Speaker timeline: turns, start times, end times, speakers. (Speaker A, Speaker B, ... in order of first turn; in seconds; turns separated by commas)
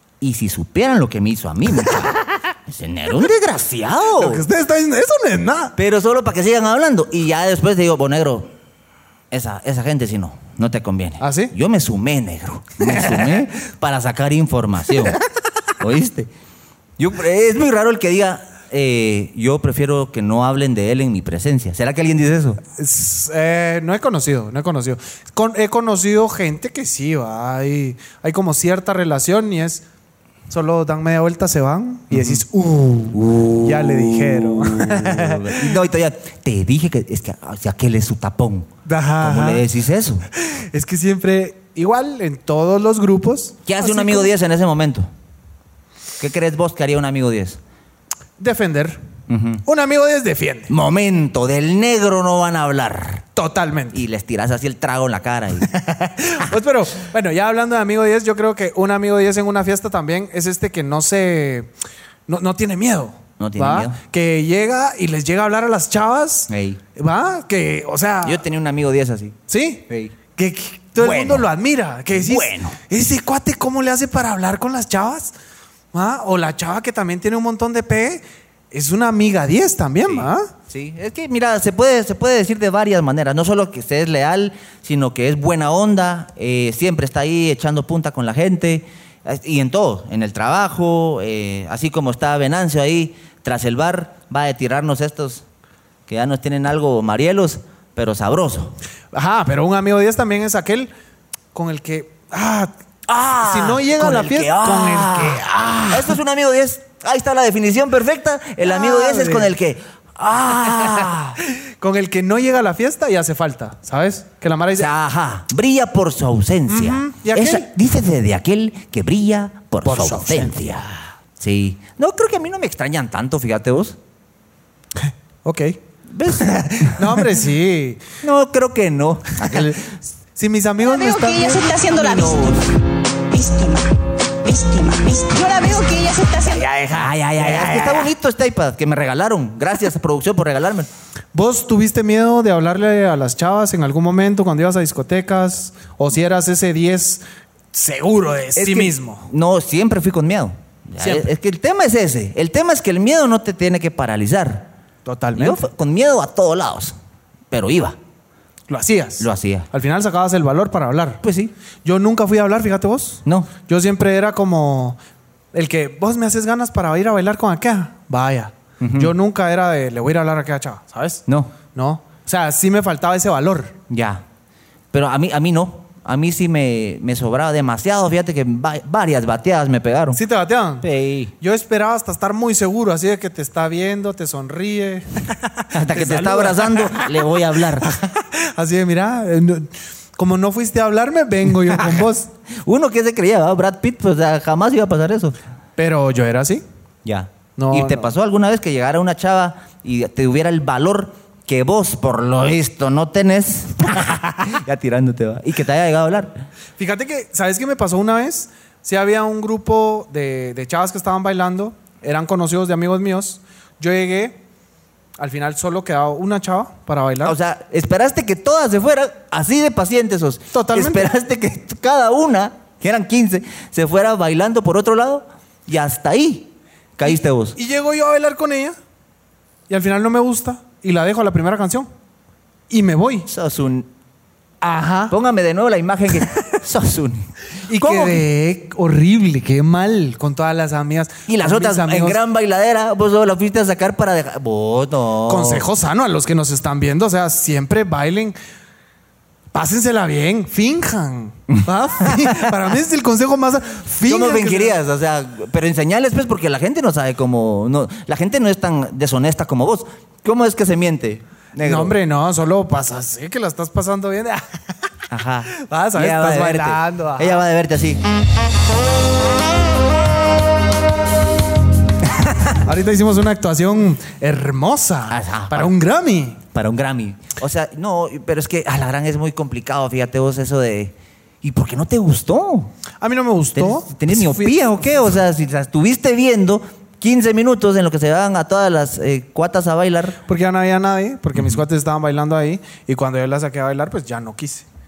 Speaker A: 0.2-4.5, Speaker B: 4.2-5.8, Speaker A: 5.8-8.5, Speaker A: 9.3-15.2, Speaker B: 11.2-11.5, Speaker B: 12.8-13.4, Speaker A: 15.8-16.3, Speaker A: 17.0-22.6, Speaker B: 22.7-29.8, Speaker B: 30.5-35.8, Speaker A: 32.1-32.4, Speaker A: 33.1-38.7, Speaker B: 38.9-39.7, Speaker A: 39.2-40.3, Speaker B: 40.4-44.3, Speaker A: 43.6-45.1, Speaker A: 46.2-47.6, Speaker B: 48.4-49.0, Speaker A: 49.3-49.6, Speaker B: 49.6-50.7, Speaker A: 50.7-53.2, Speaker B: 53.4-54.0, Speaker A: 53.9-55.7, Speaker B: 55.6-61.7, Speaker B: 62.3-68.5, Speaker A: 63.4-64.0, Speaker A: 66.5-66.8, Speaker A: 68.2-69.4, Speaker B: 69.5-75.3, Speaker A: 69.9-70.2, Speaker A: 71.0-71.5, Speaker A: 72.1-72.8, Speaker B: 75.9-80.5, Speaker A: 80.1-95.5, Speaker A: 96.1-98.8, Speaker B: 99.1-100.9, Speaker B: 101.5-102.7, Speaker A: 103.1-111.4, Speaker B: 103.4-106.2, Speaker B: 108.6-109.5, Speaker B: 110.7-114.9, Speaker A: 114.8-124.0, Speaker B: 116.7-117.7, Speaker B: 119.8-120.9, Speaker B: 125.0-125.8, Speaker A: 126.1-127.2, Speaker B: 126.9-128.0, Speaker A: 128.2-130.0, Speaker B: 129.5-131.9, Speaker C: 130.8-132.7, Speaker A: 132.3-132.6, Speaker C: 133.3-136.8, Speaker B: 136.7-138.1, Speaker A: 136.9-140.9, Speaker B: 141.3-147.2, Speaker B: 147.7-149.3, Speaker A: 148.6-154.7, Speaker B: 151.0-151.3, Speaker B: 155.1-155.6, Speaker A: 155.3-157.0, Speaker A: 157.5-158.0, Speaker B: 158.7-161.2, Speaker A: 159.2-159.7, Speaker A: 161.2-161.5, Speaker B: 161.8-165.0, Speaker B: 165.5-173.8, Speaker A: 168.8-169.1, Speaker A: 171.3-171.5, Speaker A: 173.9-174.2, Speaker A: 174.9-180.2, Speaker B: 180.1-180.9, Speaker A: 180.8-181.3, Speaker B: 181.4-187.3, Speaker A: 185.7-187.9, Speaker B: 187.8-192.3, Speaker A: 191.8-192.0, Speaker A: 192.6-195.4, Speaker B: 195.8-196.6, Speaker A: 197.1-206.3, Speaker B: 197.6-198.1, Speaker B: 206.8-214.4, Speaker B: 215.2-217.4, Speaker A: 217.2-227.6, Speaker B: 220.5-221.1, Speaker B: 227.6-228.8, Speaker B: 229.7-231.9, Speaker B: 232.7-233.3, Speaker A: 233.3-233.9, Speaker B: 234.6-235.2, Speaker A: 235.1-238.2, Speaker B: 237.7-242.2, Speaker A: 241.3-245.7, Speaker B: 245.3-248.4, Speaker B: 249.5-254.8, Speaker A: 254.1-261.9, Speaker B: 261.6-264.5, Speaker A: 265.1-268.0, Speaker B: 265.5-267.5, Speaker A: 272.2-272.6, Speaker B: 272.6-276.4, Speaker A: 275.1-275.7, Speaker A: 276.5-282.7, Speaker B: 283.0-284.9, Speaker A: 283.6-290.2, Speaker B: 290.3-294.7, Speaker A: 291.4-291.6